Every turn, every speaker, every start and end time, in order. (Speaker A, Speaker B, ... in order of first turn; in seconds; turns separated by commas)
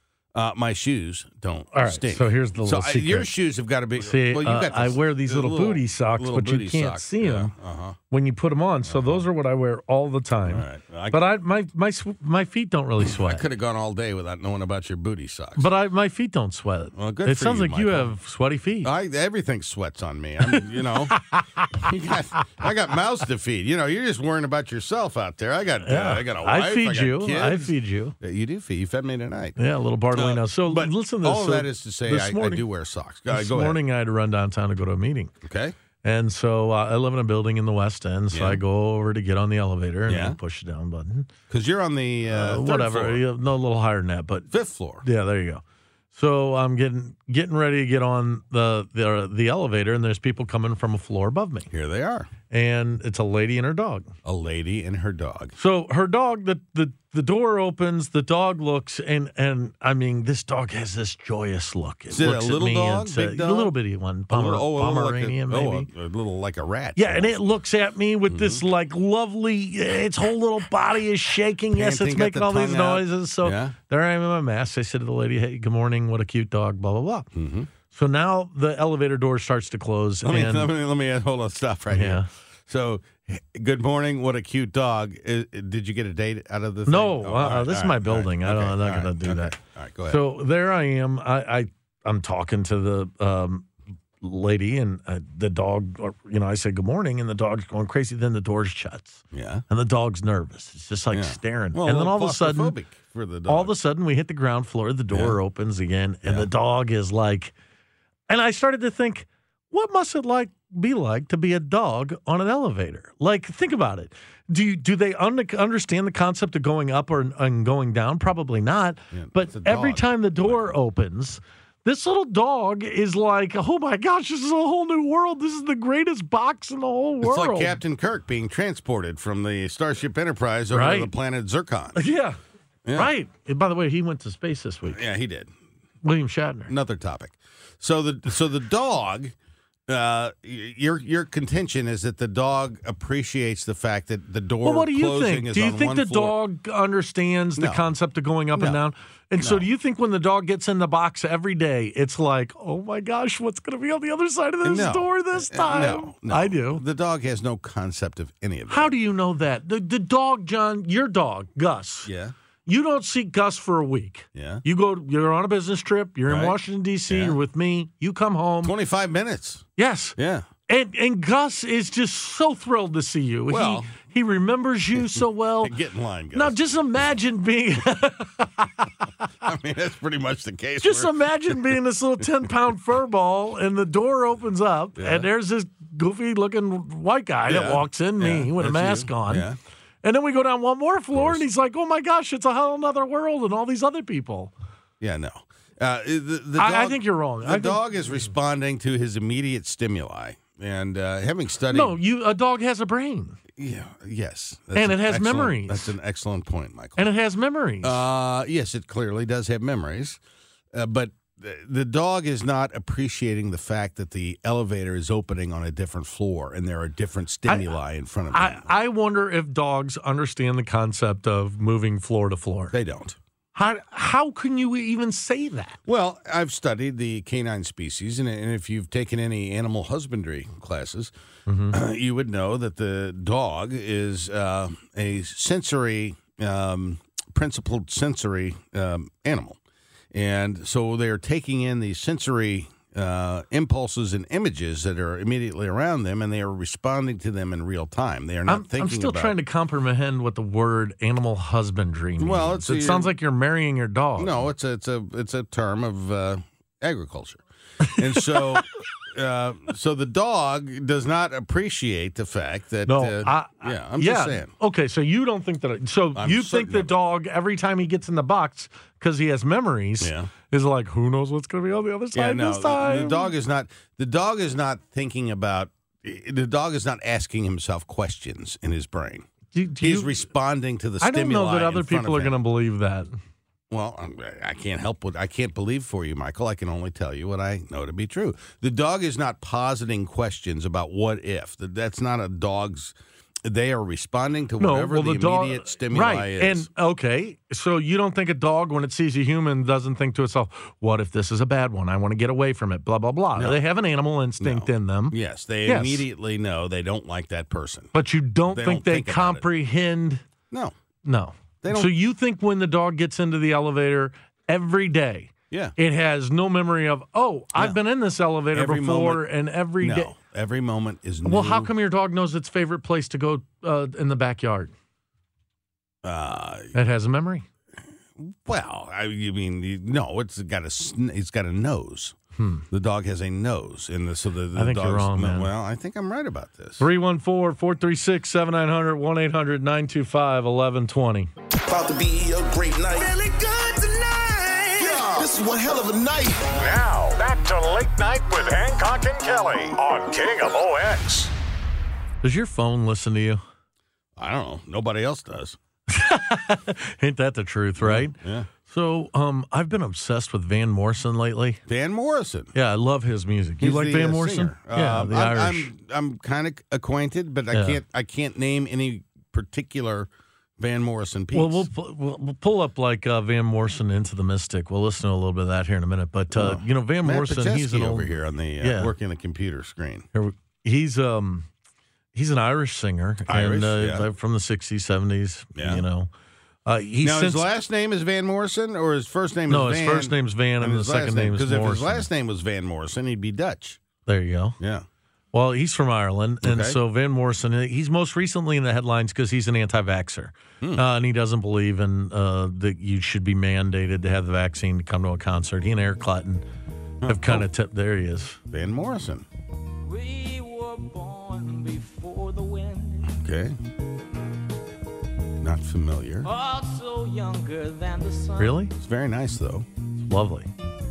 Speaker A: 0.3-8.0, Speaker B: 1.7-3.3, Speaker B: 4.0-7.5, Speaker B: 8.1-13.4, Speaker A: 8.8-9.2, Speaker A: 10.5-11.2, Speaker A: 13.0-15.7, Speaker B: 15.6-18.9, Speaker A: 16.9-18.1, Speaker A: 18.8-21.2, Speaker B: 20.5-21.9, Speaker A: 21.8-29.6, Speaker B: 25.8-28.1, Speaker B: 29.6-32.6, Speaker A: 30.1-33.8, Speaker B: 33.3-35.3, Speaker A: 35.4-35.7, Speaker B: 36.0-41.3, Speaker A: 38.3-38.6, Speaker A: 40.1-40.4, Speaker A: 41.5-43.2, Speaker B: 42.3-44.5, Speaker A: 44.5-45.0, Speaker B: 45.0-45.6, Speaker B: 46.1-51.7, Speaker A: 51.7-52.3, Speaker B: 52.5-54.1, Speaker A: 54.2-55.5, Speaker B: 55.6-65.9, Speaker A: 62.1-63.7, Speaker A: 64.3-67.4, Speaker B: 67.0-77.3, Speaker A: 68.3-68.6, Speaker A: 71.7-73.8, Speaker A: 77.3-77.7, Speaker B: 77.9-80.7, Speaker A: 80.2-90.2, Speaker B: 81.9-82.3, Speaker B: 86.9-89.5, Speaker B: 90.1-93.7, Speaker B: 94.2-102.7, Speaker A: 99.3-99.6, Speaker A: 101.1-103.7, Speaker B: 103.5-107.5, Speaker A: 105.1-105.4, Speaker B: 108.3-127.8, Speaker A: 119.1-120.7, Speaker A: 127.2-132.0, Speaker B: 130.7-131.1, Speaker B: 131.9-132.4, Speaker A: 132.8-133.1, Speaker B: 132.9-135.0, Speaker A: 134.9-135.5, Speaker B: 136.0-136.7, Speaker A: 136.7-139.3, Speaker A: 139.9-146.4, Speaker B: 144.6-156.8, Speaker A: 147.6-147.8, Speaker A: 148.5-148.8, Speaker A: 149.4-149.6, Speaker A: 154.6-158.9, Speaker B: 158.7-162.1, Speaker A: 162.0-162.3, Speaker B: 162.7-168.7, Speaker A: 164.3-164.6, Speaker A: 166.3-166.6, Speaker A: 167.1-167.4, Speaker A: 168.6-169.7, Speaker B: 169.8-170.2, Speaker A: 170.2-170.4, Speaker B: 170.7-175.7, Speaker A: 173.5-173.9, Speaker A: 175.0-176.6, Speaker B: 176.3-178.9, Speaker A: 179.4-181.7, Speaker B: 180.8-189.5, Speaker A: 184.9-185.3, Speaker A: 187.5-189.6, Speaker B: 190.0-194.5, Speaker A: 191.1-191.4, Speaker A: 195.0-202.0, Speaker B: 196.6-197.8, Speaker B: 201.7-203.4, Speaker A: 203.6-207.1, Speaker B: 204.7-205.9, Speaker B: 207.0-208.0, Speaker A: 207.8-210.2, Speaker A: 210.7-218.7, Speaker B: 218.3-222.7, Speaker A: 222.7-223.2, Speaker B: 223.5-225.8, Speaker A: 225.8-231.1, Speaker B: 231.5-231.8, Speaker A: 231.7-239.6, Speaker A: 240.1-249.4, Speaker B: 248.5-254.4, Speaker A: 252.2-253.1, Speaker A: 254.2-264.5, Speaker B: 257.9-258.6, Speaker B: 262.9-273.3, Speaker A: 266.1-266.9, Speaker A: 270.0-270.3, Speaker A: 272.1-279.3, Speaker B: 279.5-280.2, Speaker A: 279.8-282.4, Speaker B: 281.0-283.1, Speaker A: 283.7-292.9, Speaker A: 293.4-296.7, Speaker B: 294.6-306.0, Speaker A: 304.4-307.9, Speaker B: 307.9-310.2, Speaker A: 308.5-309.4, Speaker B: 311.0-320.1, Speaker A: 311.6-311.9, Speaker A: 315.5-315.8, Speaker A: 318.5-319.2, Speaker A: 319.8-321.7, Speaker B: 321.2-324.7, Speaker A: 326.0-326.7, Speaker B: 326.7-327.4, Speaker A: 328.2-332.2, Speaker B: 332.4-332.6, Speaker A: 332.7-336.9, Speaker B: 334.5-335.5, Speaker B: 336.8-341.3, Speaker C: 341.7-346.6, Speaker A: 344.8-345.1, Speaker D: 346.6-351.3, Speaker B: 352.2-353.4, Speaker A: 354.1-355.6, Speaker B: 355.9-361.6, Speaker A: 357.8-358.5, Speaker A: 361.7-362.5, Speaker B: 362.5-365.7, Speaker A: 363.6-371.7, Speaker B: 367.5-367.8, Speaker B: 371.3-378.9, Speaker A: 376.3-380.1, Speaker B: 380.1-381.5, Speaker B: 382.1-386.1, Speaker A: 383.3-384.1, Speaker A: 385.6-385.8, Speaker B: 386.6-387.4, Speaker A: 387.0-393.8, Speaker B: 389.5-392.1, Speaker B: 394.1-394.6, Speaker A: 394.6-394.9, Speaker B: 395.3-406.4, Speaker A: 396.4-396.8, Speaker A: 407.0-407.5, Speaker B: 407.0-408.4, Speaker A: 408.5-409.3, Speaker E: 409.9-413.1, Speaker A: 413.1-413.6, Speaker A: 415.4-416.3, Speaker E: 416.2-418.6, Speaker B: 418.4-418.7, Speaker A: 418.8-419.7, Speaker B: 420.0-420.5